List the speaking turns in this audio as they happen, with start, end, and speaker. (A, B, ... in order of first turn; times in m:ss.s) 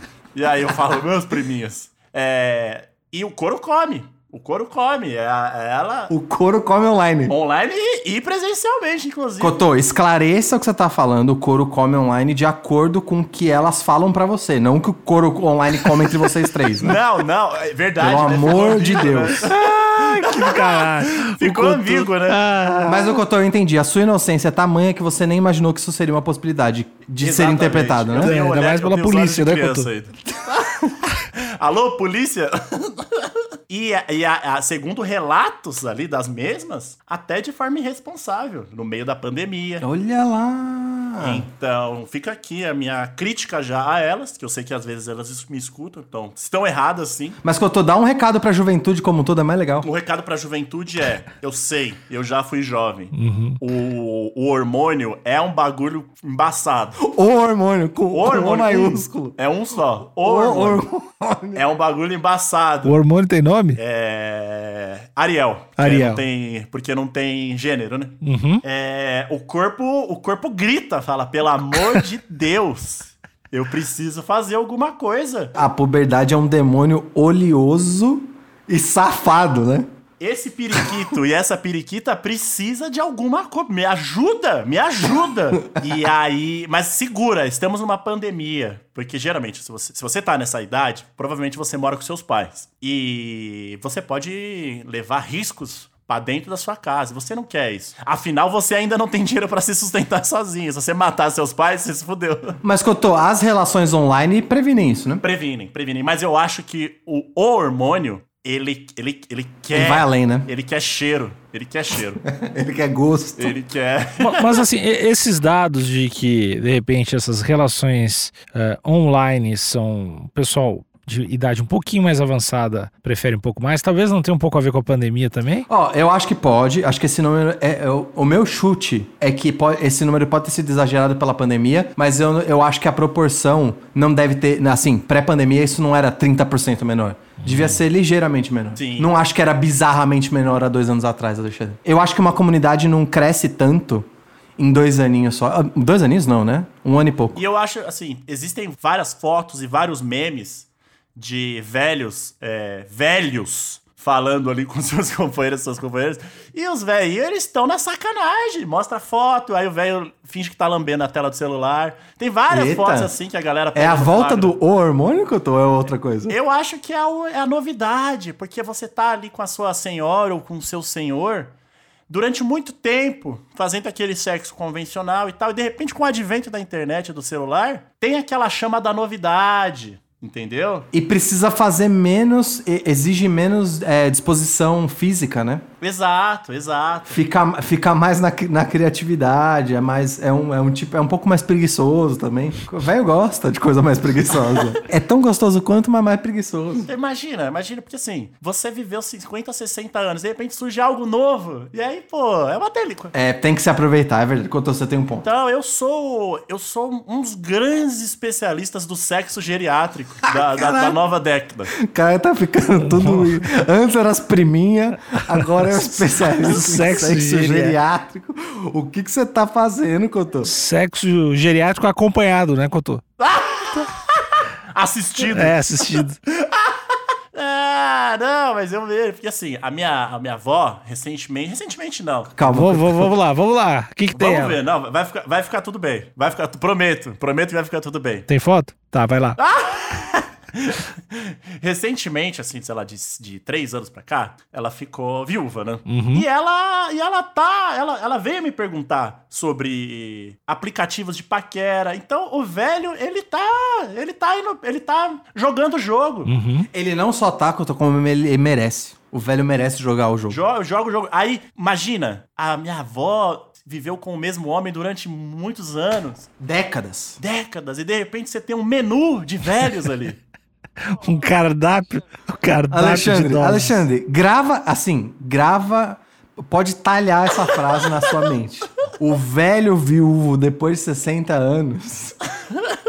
0:00.3-0:06.1 A
0:06.1-0:07.3 B
0:07.3-0:09.6 A
0:09.4-0:17.0 B
0:16.8-0:22.4 A
0:18.0-0:19.6 B
0:19.4-0:23.2 C
0:22.8-0:28.3 B
0:27.2-0:30.6 A
0:28.2-0:29.9 C
0:31.2-0:39.8 A
0:39.8-0:41.4 B
0:41.2-0:47.4 A
0:47.4-0:49.9 B
0:49.8-0:57.0 A
0:53.1-0:53.6 C
0:57.0-0:59.4 B
0:58.1-1:00.8 A
1:00.2-1:01.6 B
1:01.5-1:02.9 A
1:02.8-1:03.8 C
1:03.7-1:15.6 A
1:05.8-1:06.2 C
1:08.2-1:08.6 C
1:15.5-1:19.8 B
1:20.2-1:42.6 A
1:42.6-1:45.2 B
1:45.2-1:52.2 A
1:49.7-1:50.5 B
1:52.2-1:53.5 B
1:53.4-1:54.6 A
1:54.2-2:05.7 C
2:05.7-2:24.0 B
2:17.4-2:17.8 C
2:18.8-2:19.1 A
2:24.6-2:27.4 B
2:27.3-2:44.6 A
2:42.5-2:43.1 B
2:43.7-2:46.4 B
2:46.3-2:51.5 A
2:52.1-3:00.9 A
3:00.9-3:05.6 B
3:05.8-3:07.2 A
3:07.1-3:16.9 B
3:16.8-3:23.1 A
3:23.1-3:25.2 B
3:25.2-3:31.7 A
3:30.3-3:31.0 B
3:31.7-3:40.5 B
3:32.8-3:33.4 C
3:35.3-3:37.8 C
3:40.4-3:43.0 C
3:43.2-3:52.3 A
3:45.3-3:46.2 C
3:52.4-3:53.1 B
3:52.4-3:54.6 C
3:54.1-3:58.3 A
3:58.3-3:59.4 C
3:59.4-4:16.3 A
4:05.9-4:06.2 C
4:16.2-4:16.7 C
4:16.7-4:20.4 B
4:20.3-4:26.3 A
4:26.4-4:27.2 B
4:27.2-4:30.2 A
4:30.8-4:33.7 C
4:32.7-4:42.2 B